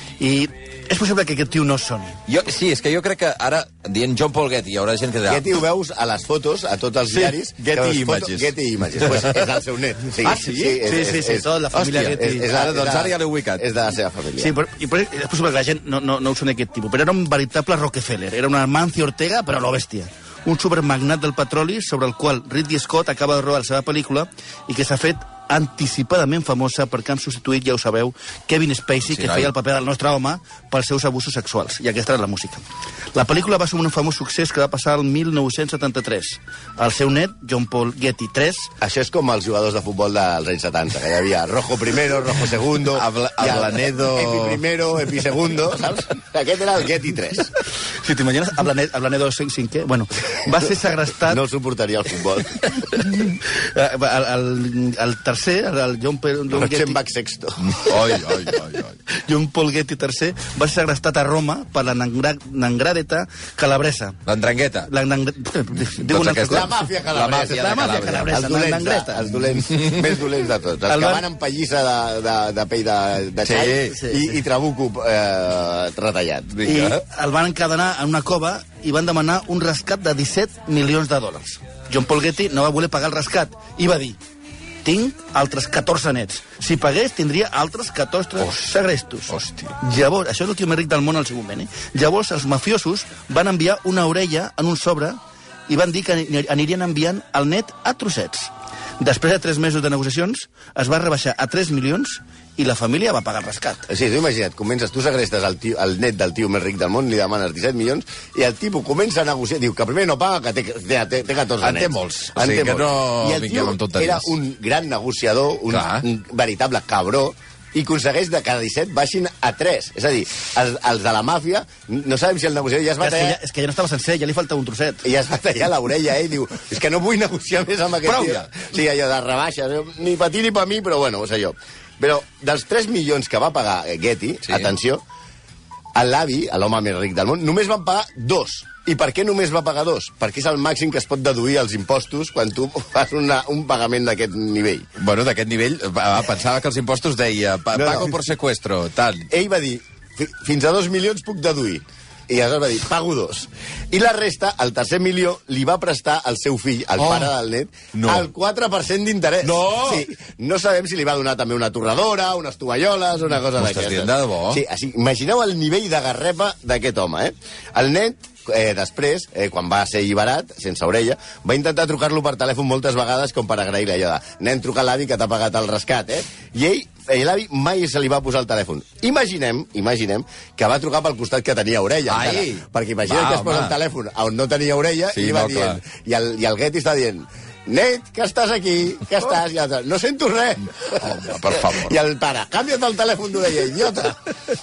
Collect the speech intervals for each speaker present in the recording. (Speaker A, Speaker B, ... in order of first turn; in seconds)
Speaker A: 0.2-2.2, 10.8-12.5, 14.4-38.7, 47.9-51.4, 52.5-57.0, 59.1-64.2, 64.8-66.7, 67.4-69.3, 70.9-71.2, 73.8-74.4, 76.6-84.2, 84.8-103.9, 123.0-125.0
Speaker B: 2.3-5.5, 7.0-9.5, 10.2-10.8, 11.7-13.6, 29.1-29.5, 42.9-44.6, 57.6-59.0, 64.2-64.9, 66.0-68.4, 69.7-70.2, 73.4-74.0, 76.5-77.0, 89.3-89.7, 111.6-114.3, 115.7-116.0, 128.0-128.4, 134.5-134.7, 145.0-149.3, 157.0-157.3, 157.9-158.3, 159.4-160.1, 163.6-164.6, 182.1-183.7, 185.1-185.8, 190.9-191.9
Speaker C: 5.3-11.5, 12.1-14.5, 38.8-47.5, 51.3-52.7, 56.5-57.7, 66.5-67.7, 68.3-76.7, 103.9-123.4, 125.0-135.0, 135.9-144.9, 147.7-148.1, 149.3-194.2